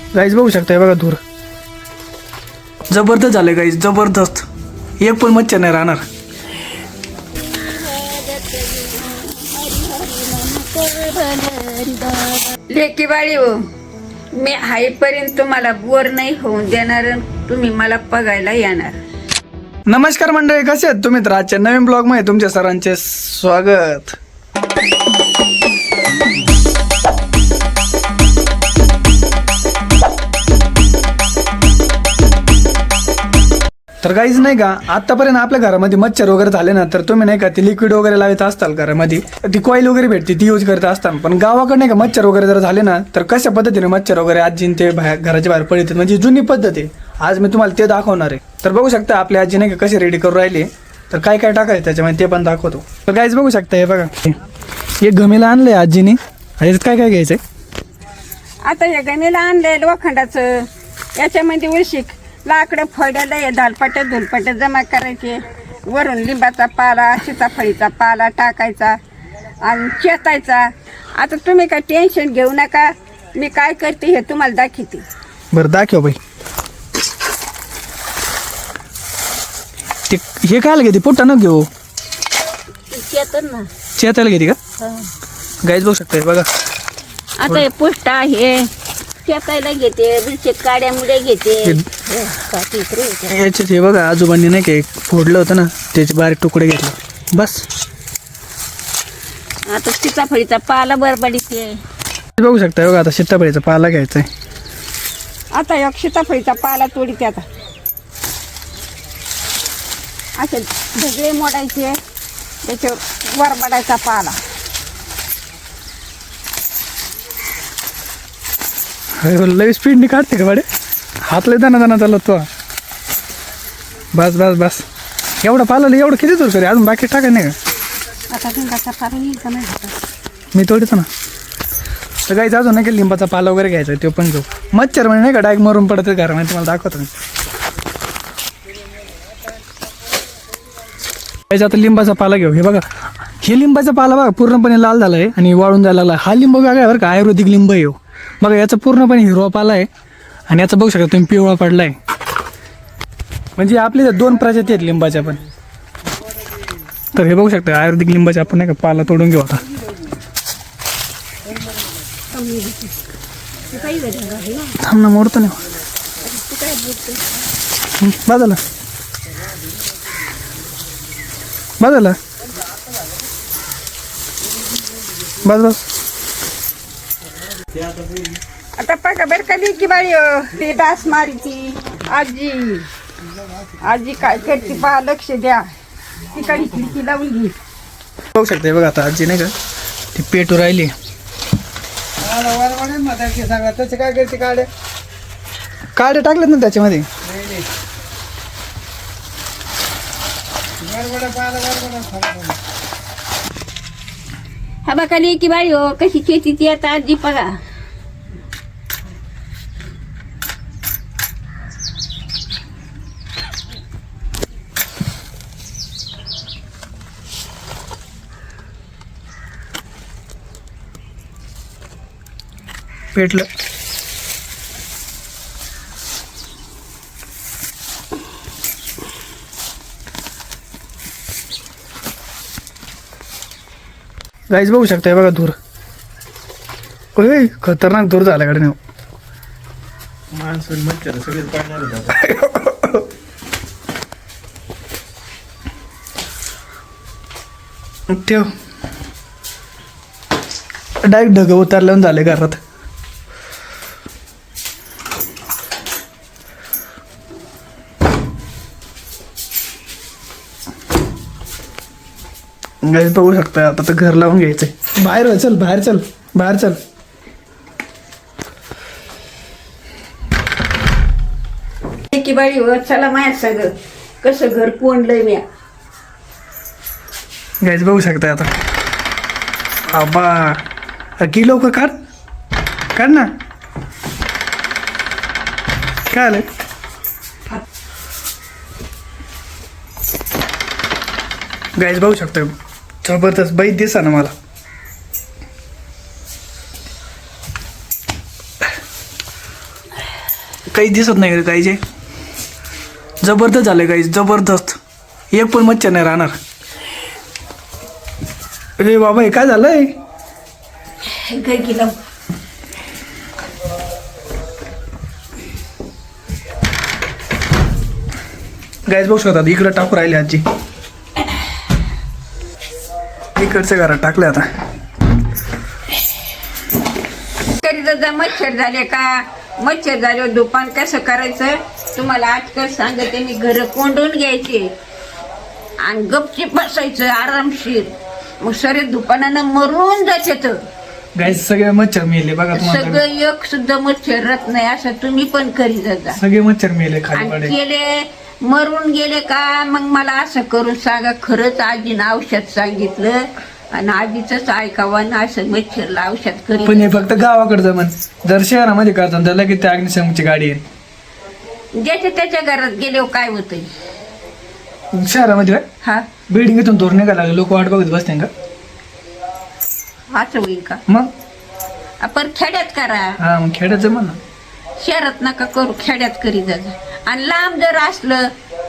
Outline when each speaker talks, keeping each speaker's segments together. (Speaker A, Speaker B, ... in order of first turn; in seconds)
Speaker A: 0.1-1.2, 2.9-4.5, 5.0-6.0, 19.9-24.2, 34.0-54.4, 55.0-57.4, 75.5-76.2, 80.1-81.7, 84.0-84.6, 85.6-86.5, 93.3-97.7, 102.4-104.3, 119.2-120.7, 121.2-122.5, 124.1-124.8, 125.4-127.5, 130.5-131.1, 132.2-137.1, 141.5-142.8, 143.4-149.9, 150.5-152.0, 153.6-155.4, 157.1-159.6, 164.8-165.6, 168.0-168.6, 171.8-172.2, 175.4-175.8, 188.3-189.5, 190.1-190.9, 195.9-197.1, 223.1-223.5, 234.5-235.6, 237.2-238.8, 242.0-243.1, 248.1-248.5, 251.0-252.6, 262.8-266.8, 277.6-278.5, 279.9-280.6, 281.2-281.9, 282.9-283.3, 286.1-286.4, 291.8-294.3, 300.7-301.8, 303.2-304.8, 305.3-306.4, 308.8-309.9, 318.9-320.4, 323.4-324.5, 341.1-343.0, 346.1-347.5, 356.6-360.6, 364.9-365.6, 366.3-368.3, 373.2-374.2
Speaker B: 7.5-13.6, 14.3-18.9, 58.6-69.0, 69.6-75.0, 82.9-83.7, 84.8-85.1, 87.4-88.7, 89.2-93.4, 99.7-101.8, 105.5-107.5, 110.4-112.0, 112.6-114.4, 128.3-130.0, 162.3-162.9, 163.7-164.8, 166.2-167.2, 178.8-182.9, 183.8-185.7, 186.2-187.5, 204.8-207.5, 272.1-275.4, 311.0-312.0, 327.5-334.7, 335.8-340.6, 342.5-346.2, 347.1-357.1, 361.8-363.7, 365.8-366.1, 370.1-370.8, 372.0-373.2, 374.8-378.3
Speaker C: 192.2-194.7, 197.3-197.7, 200.8-202.6, 240.3-242.1